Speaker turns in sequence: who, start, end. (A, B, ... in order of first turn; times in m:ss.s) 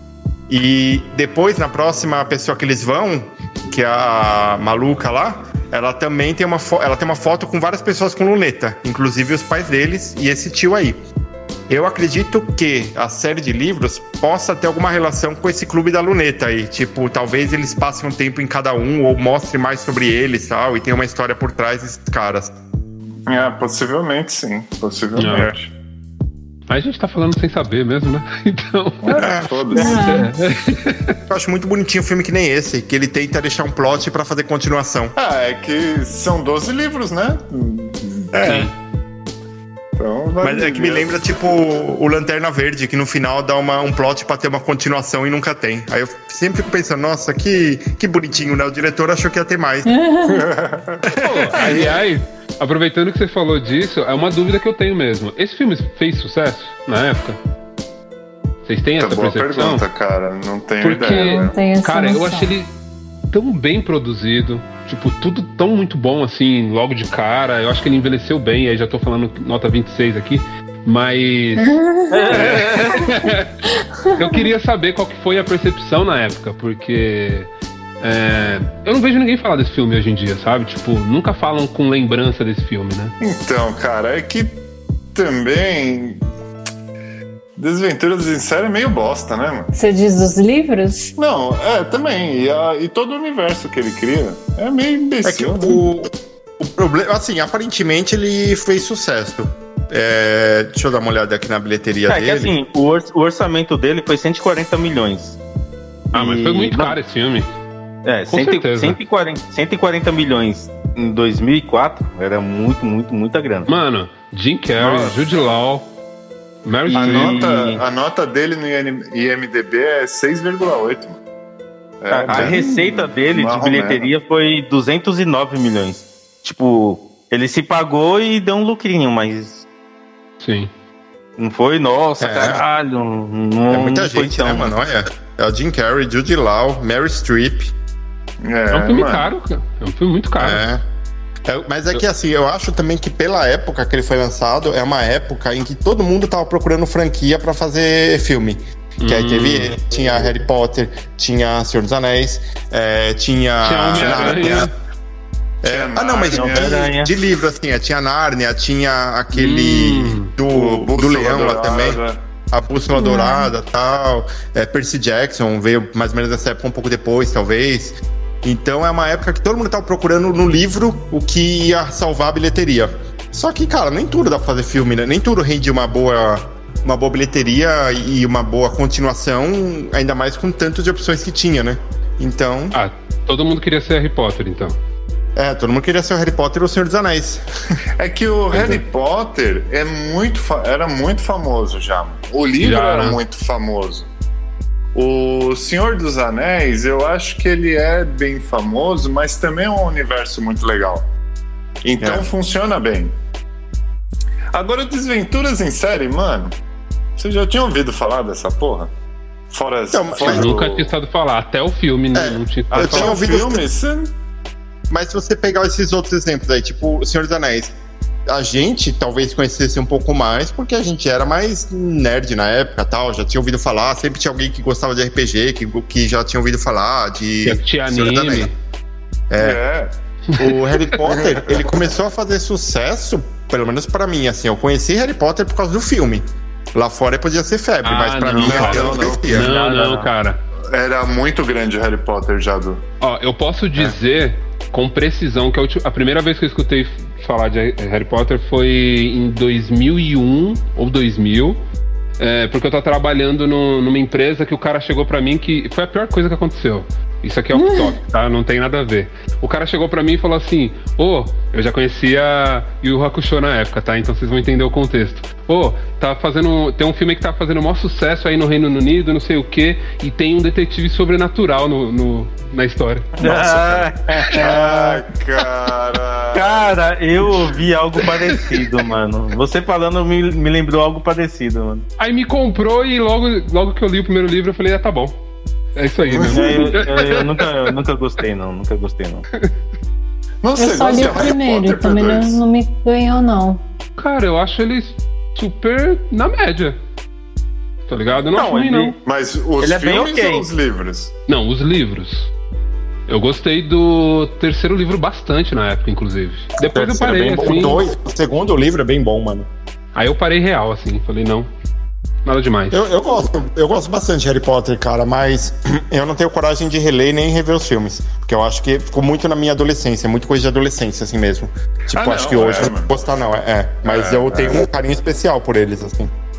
0:00.5-0:11.0 A
0:11.7-0:22.5 A
0:23.3-0:25.7 B
0:25.2-0:25.5 C
0:25.3-0:25.6 A
0:26.7-0:31.2 C
0:29.0-0:30.1 B
0:29.1-0:30.0 A
0:29.8-0:30.3 D
0:31.3-0:35.1 A
0:35.2-0:38.3 B
0:38.3-0:38.7 A
0:38.4-0:38.7 C
0:40.0-0:41.1 B
0:40.4-0:49.9 A
0:49.8-0:50.5 D
0:50.2-0:51.9 B
0:51.1-0:51.9 A
0:51.2-0:57.4 C
0:58.6-0:59.8 C
0:59.0-1:01.6 B
1:00.8-1:02.7 C
1:01.0-1:02.5 D
1:03.3-1:13.5 C
1:11.6-1:12.4 D
1:12.1-1:13.2 E
1:13.9-1:14.4 D
1:14.1-1:17.5 C
1:18.0-1:23.1 C
1:23.2-1:24.6 B
1:25.1-1:26.2 B
1:27.6-1:29.7 B
1:29.7-1:31.1 D
1:31.2-1:35.8 B
1:35.2-1:36.1 A
1:36.6-1:42.5 A
1:42.1-1:45.4 E
1:46.1-1:47.0 E
1:46.1-1:47.6 C
1:48.0-1:53.7 E
1:48.3-1:49.0 C
1:53.7-1:55.9 C
1:54.8-1:55.2 B
1:56.6-1:57.4 C
1:56.9-2:01.2 B
1:56.9-1:57.8 E
2:02.0-2:04.1 B
2:02.1-2:09.6 E
2:02.3-2:02.6 A
2:10.4-2:10.7 C
2:11.4-2:14.7 E
2:12.2-2:12.6 A
2:13.7-2:17.7 A
2:18.4-2:19.3 B
2:18.7-2:20.6 C
2:20.4-2:20.8 A
2:21.5-2:34.7 A
2:29.0-2:29.7 C
2:33.6-2:34.7 C
2:33.9-2:34.7 B
2:35.6-2:36.9 B
2:35.6-2:42.0 A
2:36.3-2:37.1 E
2:39.3-2:40.3 C
2:40.5-2:42.2 B
2:42.5-3:02.8 A
2:43.0-2:43.5 D
3:02.7-3:04.8 C
3:05.4-3:07.4 A
3:08.0-3:14.1 B
3:08.5-3:08.8 C
3:12.6-3:13.2 C
3:14.9-3:21.0 B
3:21.8-3:23.1 B
3:24.5-3:26.5 B
3:27.2-3:28.9 B
3:29.5-3:30.9 B
3:29.9-3:30.5 A
3:30.2-3:33.3 C
3:32.1-3:33.6 A
3:32.7-3:34.1 B
3:34.9-3:37.7 A
3:38.3-3:48.5 A
3:47.4-3:48.5 C
3:49.3-3:49.6 A
3:49.4-3:49.9 B
3:50.3-3:50.8 C
3:50.4-3:56.2 A
3:51.1-3:51.5 B
3:56.7-3:59.5 A
3:57.8-4:00.4 C
3:58.3-4:00.1 B
4:00.7-4:02.8 B
4:03.0-4:11.6 C
4:12.2-4:33.6 C
4:17.5-4:17.9 D
4:33.2-4:35.0 E
4:33.2-4:33.6 B
4:34.3-4:36.8 B
4:36.3-4:41.8 E
4:38.4-4:38.6 C
4:42.0-4:45.2 C
4:45.8-4:47.7 C
4:46.0-4:46.9 B
4:46.3-4:49.2 E
4:50.4-4:52.4 B
4:50.6-4:53.6 D
4:54.0-4:56.8 C
4:57.9-4:58.9 C
4:58.3-4:59.0 E
4:59.0-5:01.1 B
4:59.6-5:00.4 E
5:01.3-5:02.3 C
5:03.1-5:07.8 C
5:06.6-5:09.5 A
5:09.9-5:11.5 C
5:12.2-5:12.8 C
5:12.7-5:26.1 A
5:21.9-5:22.9 B
5:23.8-5:24.6 B